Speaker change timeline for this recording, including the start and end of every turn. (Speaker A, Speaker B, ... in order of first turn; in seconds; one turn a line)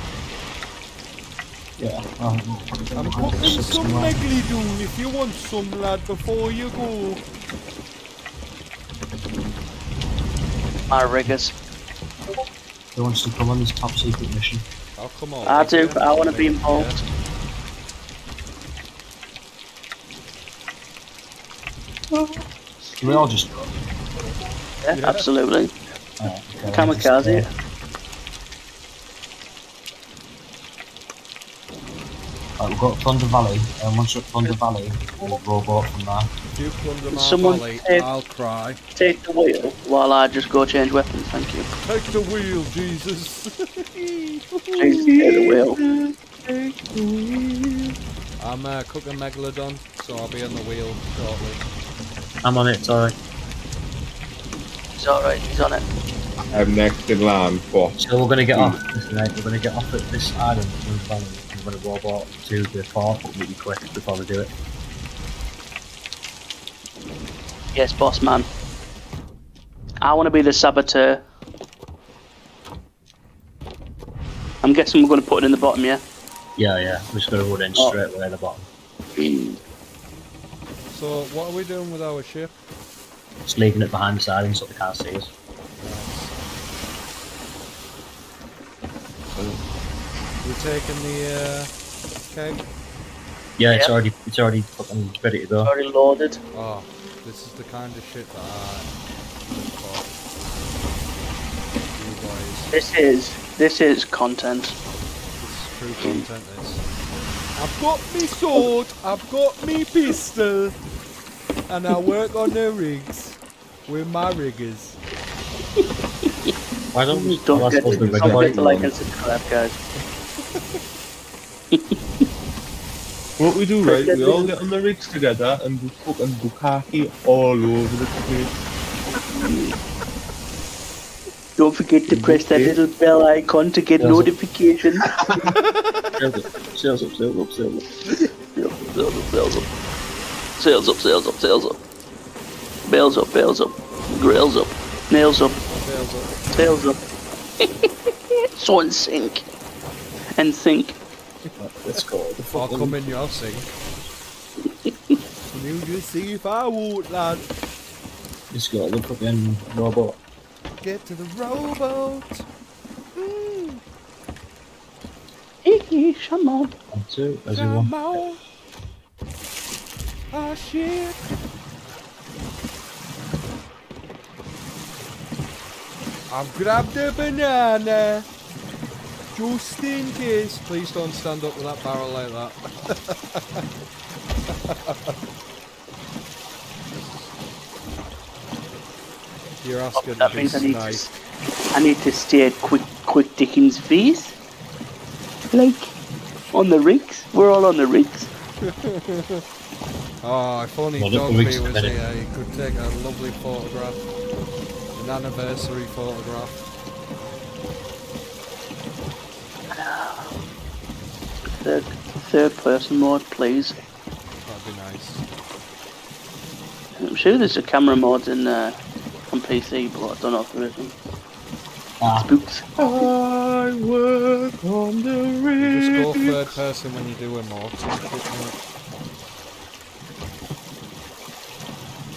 Speaker A: 1.8-4.2
Speaker B: 2.9-7.2
Speaker C: 10.9-11.5
Speaker A: 12.9-14.6
Speaker B: 15.0-17.0
Speaker C: 15.4-16.9
Speaker A: 23.0-23.7
Speaker C: 24.8-25.7
Speaker B: 24.9-25.3
Speaker A: 26.2-27.5
Speaker C: 26.7-27.5
Speaker A: 32.6-36.3
Speaker B: 36.5-38.8
Speaker C: 37.1-38.0
Speaker C: 39.0-41.7
Speaker B: 41.8-45.0
Speaker D: 44.8-47.9
Speaker C: 44.8-45.8
Speaker B: 48.4-51.6
Speaker A: 52.4-53.1
Speaker C: 55.0-55.8
Speaker D: 56.5-58.0
Speaker A: 58.0-64.5
Speaker D: 58.5-58.8
Speaker C: 67.7-68.5
Speaker C: 70.0-71.2
Speaker C: 74.6-76.0
Speaker A: 76.6-78.7
Speaker C: 79.2-79.5
Speaker B: 80.9-82.5
Speaker A: 83.4-85.3
Speaker B: 85.8-86.3
Speaker B: 90.4-91.7
Speaker B: 92.3-92.7
Speaker A: 93.6-95.7
Speaker C: 95.6-96.4
Speaker B: 96.5-98.9
Speaker B: 99.4-100.1
Speaker B: 101.9-102.7
Speaker C: 102.7-104.8
Speaker B: 105.4-106.8
Speaker B: 107.5-110.8
Speaker B: 111.7-115.0
Speaker A: 116.9-118.9
Speaker C: 117.1-119.8
Speaker D: 117.5-118.9
Speaker C: 121.7-122.2
Speaker D: 123.4-128.5
Speaker C: 123.8-124.5
Speaker C: 129.4-129.7
Speaker C: 131.6-135.1
Speaker D: 132.1-132.8
Speaker A: 134.0-134.3
Speaker D: 135.1-135.5
Speaker B: 135.8-136.1
Speaker A: 136.2-137.8
Speaker C: 138.6-139.7
Speaker C: 140.6-141.8
Speaker C: 142.9-145.6
Speaker B: 145.8-146.4
Speaker C: 146.5-147.0
Speaker C: 147.6-147.9
Speaker C: 148.6-149.4
Speaker C: 150.3-151.0
Speaker A: 151.6-152.9
Speaker B: 151.9-153.7
Speaker C: 154.7-155.2
Speaker B: 155.5-157.5
Speaker A: 158.5-160.2
Speaker B: 160.8-162.4
Speaker B: 163.2-163.8
Speaker C: 165.6-166.7
Speaker A: 166.9-167.9
Speaker B: 167.5-168.4
Speaker B: 170.3-171.2
Speaker B: 176.3-178.3
Speaker B: 179.3-183.6
Speaker B: 184.5-185.1
Speaker B: 189.6-191.1
Speaker C: 189.9-191.1
Speaker C: 191.7-194.3
Speaker C: 195.5-195.9
Speaker C: 196.5-198.3
Speaker B: 198.6-199.4
Speaker B: 200.2-204.0
Speaker A: 201.0-202.0
Speaker B: 204.9-206.7
Speaker C: 209.7-210.3
Speaker C: 211.6-213.8
Speaker B: 214.4-215.2
Speaker C: 217.0-218.8
Speaker C: 219.3-220.9
Speaker A: 222.0-222.3
Speaker C: 222.2-223.1
Speaker D: 222.8-226.6
Speaker B: 225.6-228.6